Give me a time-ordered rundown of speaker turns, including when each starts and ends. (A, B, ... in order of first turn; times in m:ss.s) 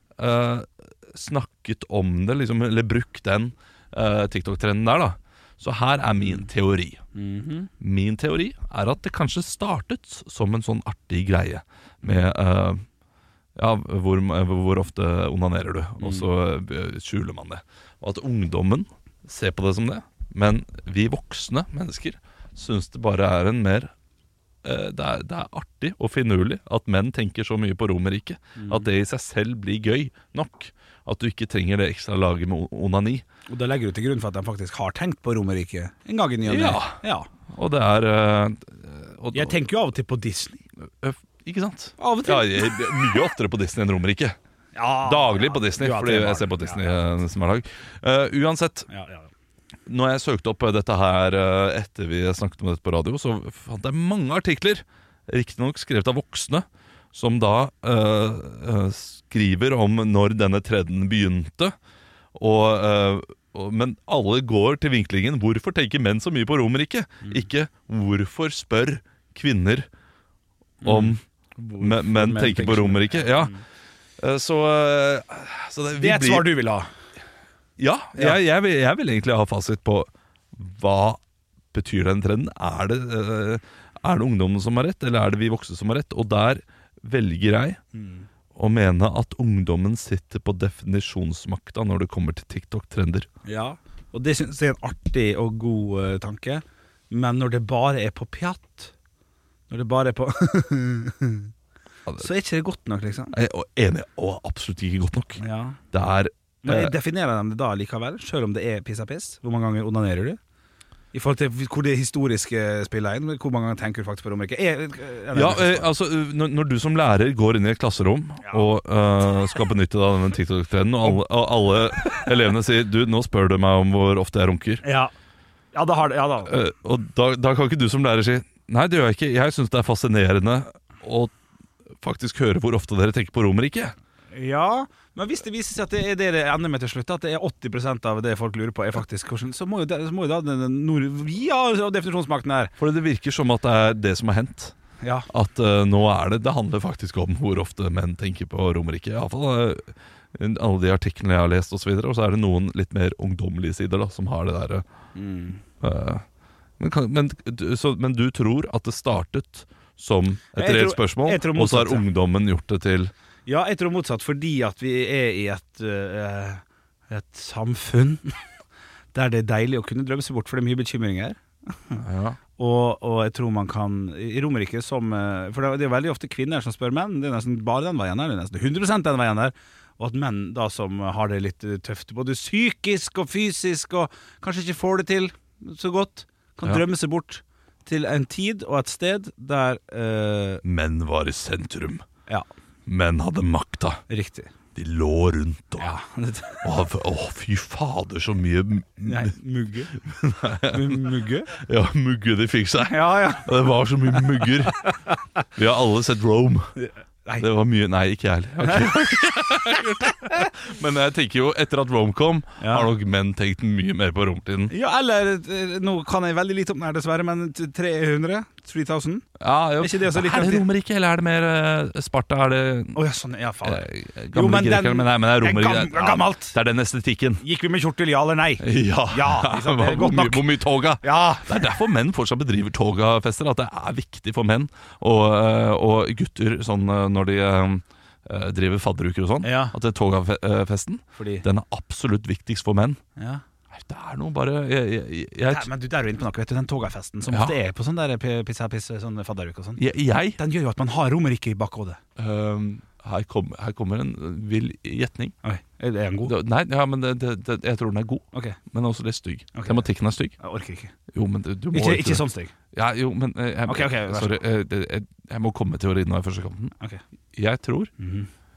0:00.2-0:07.0 A
0:07.2-0:07.7 B
0:07.8-0:12.8 A
0:13.6-0:23.9 A
0:16.0-0:16.3 B
0:24.6-0:33.2 A
0:28.6-0:28.9 B
0:33.5-0:37.3 B
0:36.5-0:37.0 A
0:37.5-0:39.6 A
0:39.3-0:40.6 B
0:41.0-0:44.4 A
0:42.0-0:42.8 B
0:44.8-0:47.0 B
0:45.0-0:48.9 A
0:48.9-0:49.3 B
0:49.9-1:01.8 A
1:02.4-1:09.9 A
1:10.8-1:13.6 B
1:10.8-1:11.2 A
1:11.8-1:13.5 A
1:14.2-1:16.5 A
1:16.0-1:16.9 B
1:17.8-1:21.2 A
1:21.7-1:27.8 A
1:28.0-1:28.3 B
1:28.6-1:33.3 A
1:33.5-1:38.9 B
1:39.7-1:41.5 B
1:42.2-1:43.3 B
1:43.3-1:45.4 A
1:45.4-1:45.8 B
1:45.9-1:47.0 A
1:46.6-1:50.4 B
1:51.1-1:55.9 B
1:55.3-2:04.8 A
2:02.0-2:02.3 B
2:04.8-2:05.1 B
2:05.7-2:06.5 B
2:06.5-2:11.3 A
2:12.0-2:14.0 A
2:14.3-2:22.7 B
2:22.8-2:24.7 A
2:25.0-2:25.3 B
2:25.3-2:34.8 A
2:35.2-2:35.6 B
2:35.8-2:36.2 A
2:36.8-2:43.1 A
2:40.6-2:42.0 B
2:43.5-2:48.4 B
2:49.1-2:52.0 B
2:52.0-2:52.4 A
2:52.6-3:10.6 B
3:10.6-3:12.0 A
3:12.9-3:14.0 A
3:14.1-3:14.5 B
3:14.8-3:15.9 A
3:15.8-3:16.6 B
3:16.6-3:19.3 A
3:19.1-3:20.0 B
3:20.1-3:24.8 A
3:20.7-3:21.5 B
3:22.9-3:23.5 B
3:25.6-3:26.7 A
3:26.8-3:27.5 B
3:27.4-3:34.7 A
3:28.7-3:28.9 B
3:32.6-3:32.9 B
3:34.7-3:39.3 B
3:39.4-3:43.0 A
3:39.8-3:40.6 B
3:42.9-3:46.6 B
3:43.6-3:47.4 A
3:47.4-3:50.4 B
3:48.6-4:03.0 A
3:51.0-3:51.7 B
3:59.4-3:59.7 B
4:01.2-4:01.4 B
4:03.7-4:05.7 A
4:05.5-4:09.8 B
4:07.3-4:07.6 A
4:09.8-4:10.4 A
4:10.4-4:12.0 B
4:12.2-4:15.4 A
4:15.4-4:16.3 B
4:16.2-4:20.4 A
4:19.6-4:19.8 B
4:20.4-4:20.9 B
4:21.1-4:26.7 A
4:21.7-4:22.5 B
4:23.7-4:24.4 B
4:27.4-4:27.9 A
4:28.0-4:28.3 B